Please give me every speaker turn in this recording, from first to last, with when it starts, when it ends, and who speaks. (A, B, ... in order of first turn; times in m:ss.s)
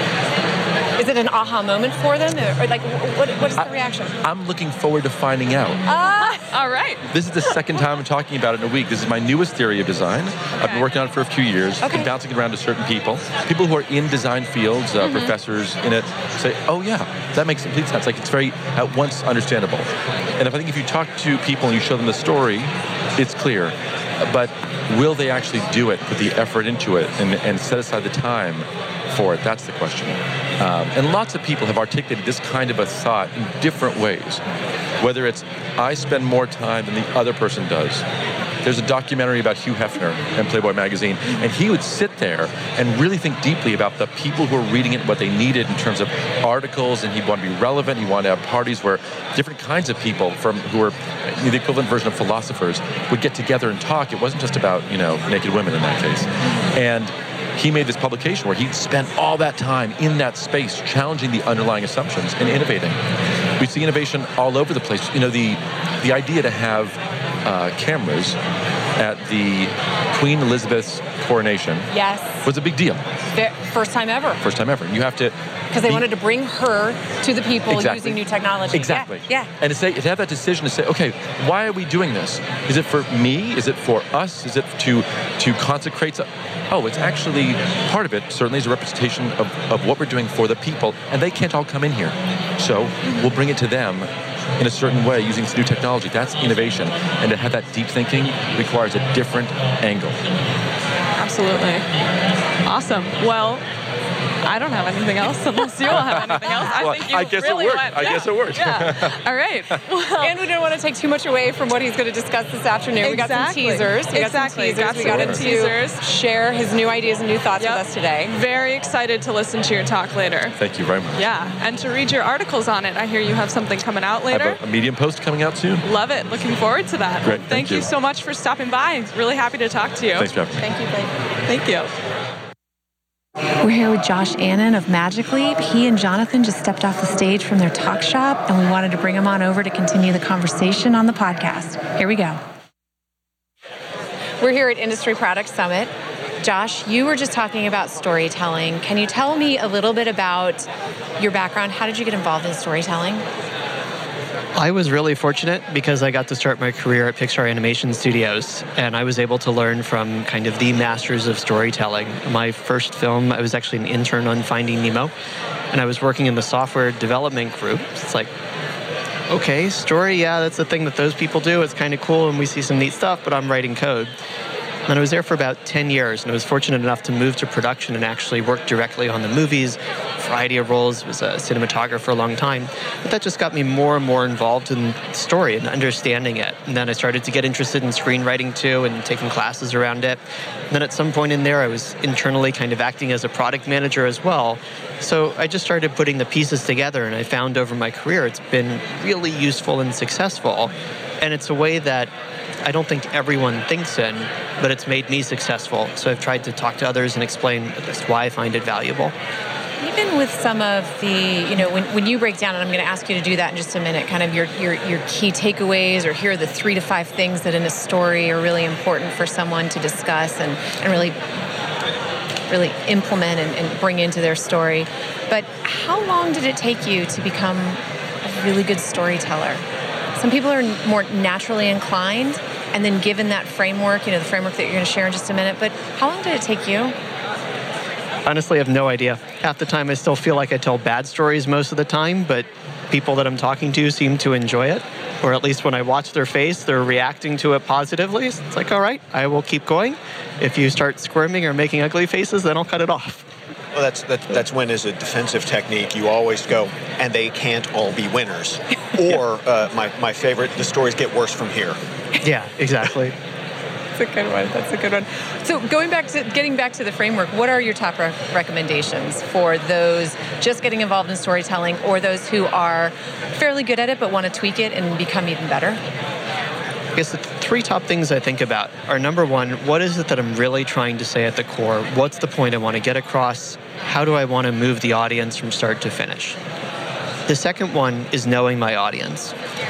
0:01.0-0:04.2 A
0:04.2-0:05.8 B
0:05.9-0:06.4 A
0:05.9-0:07.0 C
0:07.1-0:19.9 B
0:10.6-0:10.9 C
0:11.8-0:12.1 A
0:15.0-0:15.3 A
0:20.4-0:34.4 B
0:35.0-0:38.0 B
0:38.6-1:03.0 B
1:03.6-1:08.4 B
1:09.0-1:11.9 B
1:11.9-1:12.4 A
1:12.4-1:13.0 B
1:13.3-1:14.4 A
1:14.4-1:16.0 B
1:15.7-1:19.5 A
1:17.7-1:18.2 B
1:18.7-1:40.2 B
1:41.2-1:41.9 C
1:42.6-1:43.6 C
1:44.4-1:50.3 C
1:46.0-1:49.2 B
1:50.2-1:58.3 A
1:53.0-1:56.0 C
1:54.9-1:55.5 B
1:57.6-2:00.6 C
2:00.6-2:01.2 B
2:01.2-2:04.6 C
2:04.3-2:05.9 B
2:05.8-2:11.9 C
2:07.2-2:07.9 B
2:10.2-2:10.6 B
2:13.6-2:22.4 A
2:24.4-2:33.3 A
2:34.6-2:45.1 D
2:45.7-2:48.3 D
2:49.3-2:54.1 D
2:54.9-3:10.2 D
3:10.7-3:22.1 D
3:22.6-3:29.2 D
3:29.8-3:41.2 A
3:42.5-3:49.6 A
3:50.2-3:57.0 A
3:58.2-4:13.2 D
4:13.8-4:21.8 E
4:22.2-4:23.2 D
4:24.0-4:35.8 A
4:37.0-4:46.4 D
4:47.3-4:49.3 D